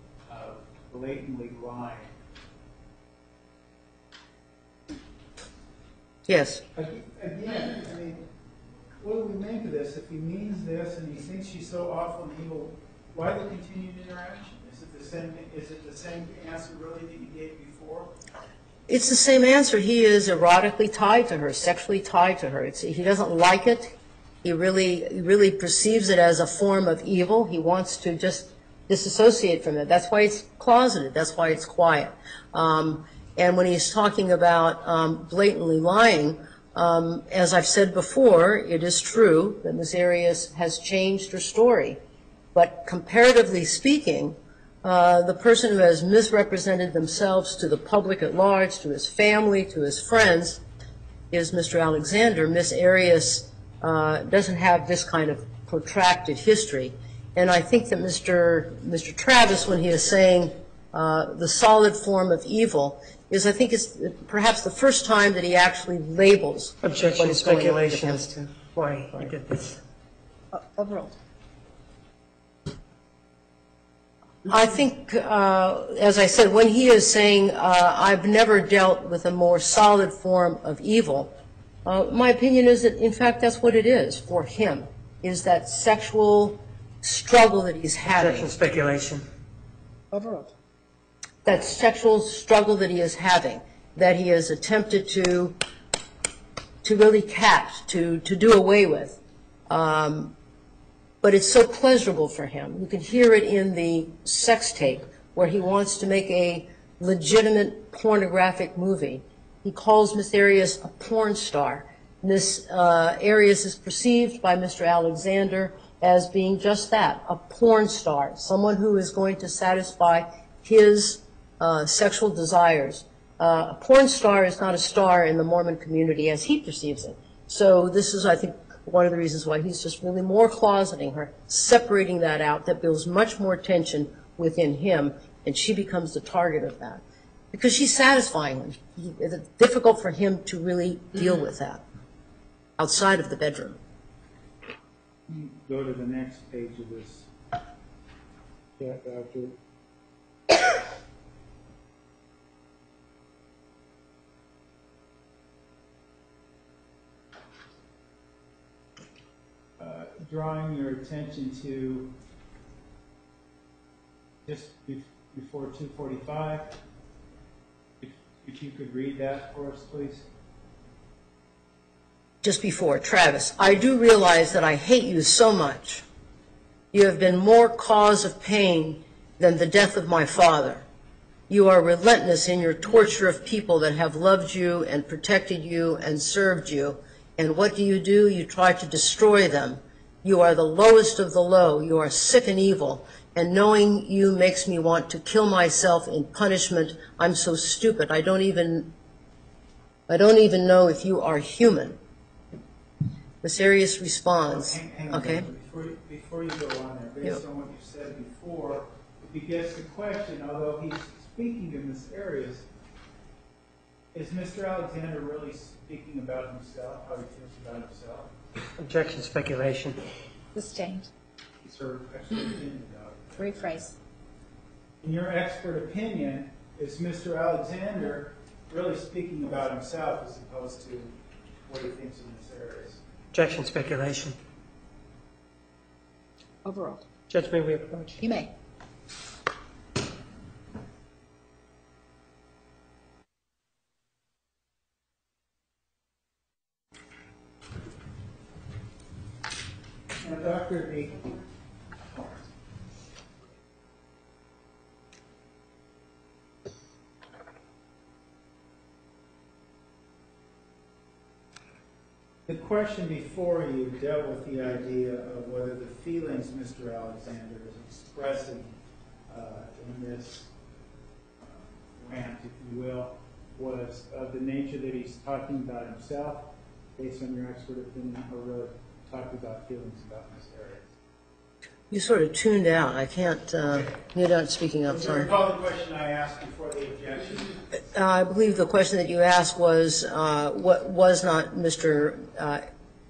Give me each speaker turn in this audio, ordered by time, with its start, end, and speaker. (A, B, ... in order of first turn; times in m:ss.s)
0:00.3-0:02.1 A
0:06.2-0:06.6 B
0:06.8-0:08.2 A
0:09.0-0:18.1 A
0:18.9-0:42.0 B
0:42.5-0:50.6 B
0:51.3-1:08.3 B
1:06.8-1:09.8 C
1:10.5-1:11.1 D
1:14.4-1:21.3 B
1:21.8-1:28.5 B
1:28.1-1:29.2 C
1:30.1-1:30.5 D
1:31.4-1:35.6 B
1:36.8-1:40.3 B
1:41.2-2:21.8 B
2:22.8-2:23.8 B
2:25.3-2:27.3 A
2:28.8-2:29.6 A
2:39.8-2:42.1 A
2:44.4-2:46.7 A
2:48.0-2:50.2 A
2:52.4-2:56.0 B
2:56.9-3:00.8 B
3:01.5-3:18.9 B
3:20.1-3:22.0 B
3:23.4-3:25.5 B
3:24.5-3:32.6 A
3:34.1-3:38.3 A
3:38.8-3:40.0 C
3:40.5-3:41.1 D
3:41.6-3:43.4 A
3:43.4-3:43.9 D
3:45.0-3:51.1 A
3:51.6-3:53.0 A
3:53.3-3:54.4 C
3:56.6-3:57.0 D
3:57.3-3:58.2 C
3:58.2-3:58.5 D
4:10.2-4:11.4 A
4:22.5-4:28.7 A
4:29.3-4:30.5 A
4:31.4-4:40.9 A
4:41.9-4:45.3 B
4:44.8-4:47.6 A
4:47.8-4:52.6 B